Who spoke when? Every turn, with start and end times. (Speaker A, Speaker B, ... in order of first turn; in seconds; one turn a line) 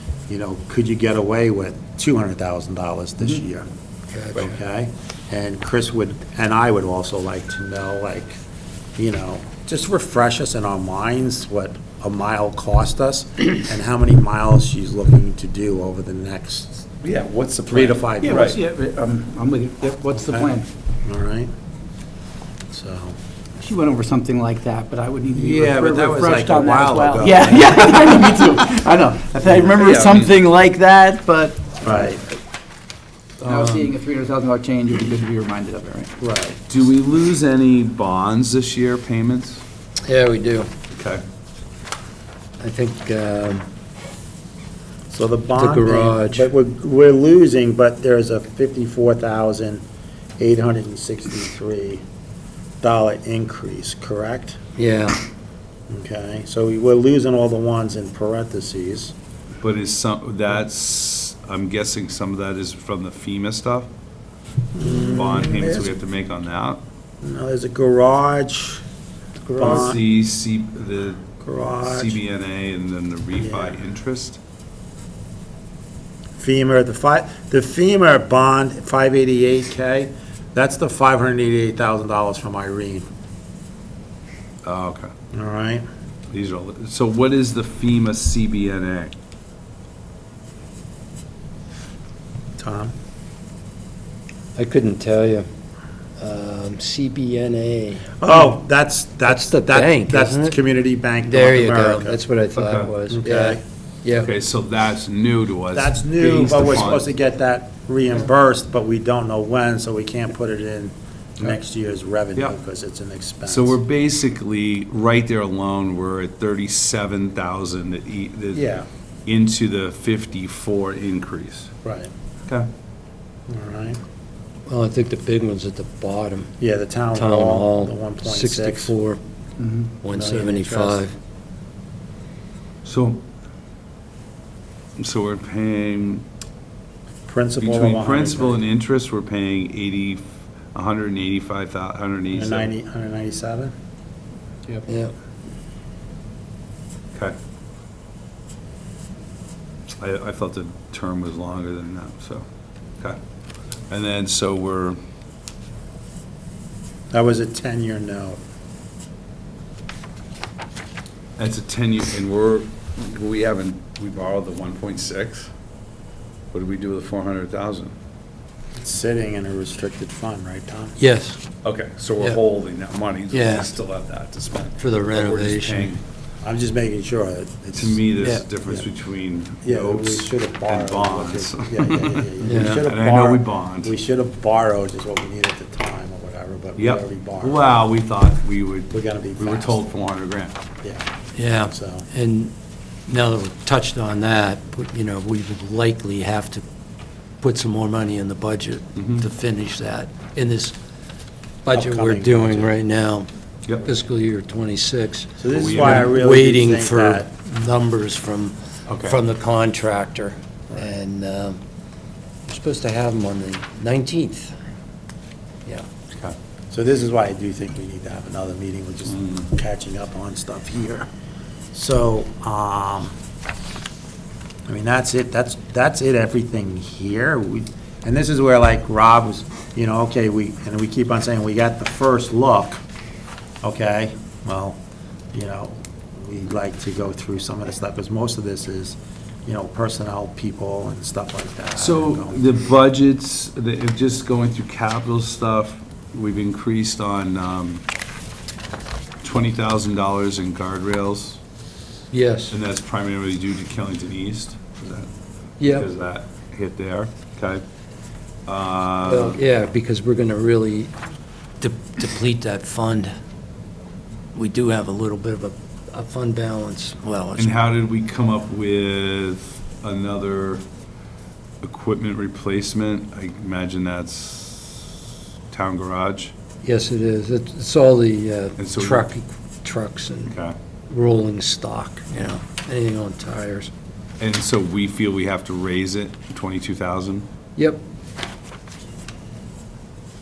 Speaker A: 0.3-3.6
Speaker B: 4.1-4.5
Speaker A: 4.3-8.4
Speaker A: 9.0-16.9
Speaker C: 17.0-18.6
Speaker A: 17.7-18.6
Speaker D: 18.2-20.7
Speaker A: 20.2-20.5
Speaker A: 21.0-21.5
Speaker A: 22.7-23.1
Speaker D: 23.6-31.6
Speaker A: 25.3-27.9
Speaker C: 29.6-30.4
Speaker A: 31.8-32.2
Speaker D: 33.4-36.1
Speaker B: 33.5-33.9
Speaker A: 36.2-36.6
Speaker C: 36.7-39.6
Speaker B: 40.0-40.7
Speaker C: 40.9-41.2
Speaker B: 42.6-43.7
Speaker A: 45.1-49.8
Speaker B: 45.5-46.5
Speaker A: 50.4-52.0
Speaker A: 52.8-54.6
Speaker B: 54.8-55.2
Speaker A: 55.9-59.1
Speaker C: 59.6-63.9
Speaker A: 64.7-65.9
Speaker C: 65.1-66.8
Speaker A: 67.2-68.8
Speaker A: 69.5-70.0
Speaker C: 69.6-71.2
Speaker A: 71.4-72.2
Speaker C: 71.8-74.4
Speaker A: 73.4-73.8
Speaker A: 76.4-83.1
Speaker C: 84.6-85.1
Speaker A: 85.3-85.8
Speaker C: 86.3-89.1
Speaker A: 92.6-92.9
Speaker B: 94.5-95.5
Speaker B: 96.2-98.5
Speaker A: 98.2-102.2
Speaker B: 99.2-100.6
Speaker B: 101.2-104.3
Speaker C: 102.5-102.9
Speaker A: 103.1-103.6
Speaker C: 104.0-107.1
Speaker A: 105.7-113.8
Speaker C: 113.5-118.6
Speaker A: 118.5-118.9
Speaker C: 119.2-121.7
Speaker A: 121.8-122.1
Speaker A: 123.5-124.0
Speaker B: 124.7-126.5
Speaker A: 126.6-128.9
Speaker B: 127.1-129.2
Speaker D: 129.6-129.9
Speaker B: 130.0-131.1
Speaker A: 130.1-131.0
Speaker C: 132.8-133.2
Speaker C: 135.0-136.2
Speaker A: 137.3-138.6
Speaker C: 137.6-142.7
Speaker A: 142.3-143.7
Speaker B: 144.8-145.1
Speaker C: 149.9-152.4
Speaker C: 153.9-155.0
Speaker A: 157.1-158.4
Speaker C: 161.4-165.5
Speaker C: 166.5-167.9
Speaker A: 168.8-171.0
Speaker B: 171.0-171.4
Speaker C: 171.6-176.0
Speaker B: 173.3-173.7
Speaker B: 174.8-175.9
Speaker A: 176.4-178.9
Speaker C: 177.7-183.9
Speaker B: 178.2-178.4
Speaker A: 179.6-187.7
Speaker B: 182.4-182.8
Speaker C: 186.8-190.6
Speaker A: 188.9-189.8
Speaker B: 191.3-192.5
Speaker A: 191.7-192.1
Speaker B: 193.1-196.6
Speaker B: 197.4-200.8
Speaker C: 198.9-199.3
Speaker B: 201.6-203.3
Speaker A: 201.7-202.8
Speaker B: 203.8-211.6
Speaker A: 205.4-207.3
Speaker C: 205.5-206.1
Speaker C: 208.9-209.2
Speaker B: 212.4-214.6
Speaker A: 216.7-221.1
Speaker A: 221.7-223.1
Speaker A: 224.7-232.8
Speaker A: 233.6-234.8
Speaker A: 235.3-242.4
Speaker C: 241.8-247.8
Speaker C: 249.2-251.4
Speaker B: 252.1-252.5
Speaker C: 252.5-257.6
Speaker B: 255.6-255.9
Speaker C: 258.5-259.4
Speaker B: 259.0-260.9
Speaker B: 261.6-263.1
Speaker B: 264.3-267.5
Speaker C: 267.4-270.6
Speaker C: 271.6-276.3
Speaker B: 276.6-280.4
Speaker C: 278.6-279.1
Speaker C: 280.2-280.6
Speaker B: 280.9-283.7
Speaker C: 284.2-287.3
Speaker B: 287.6-287.8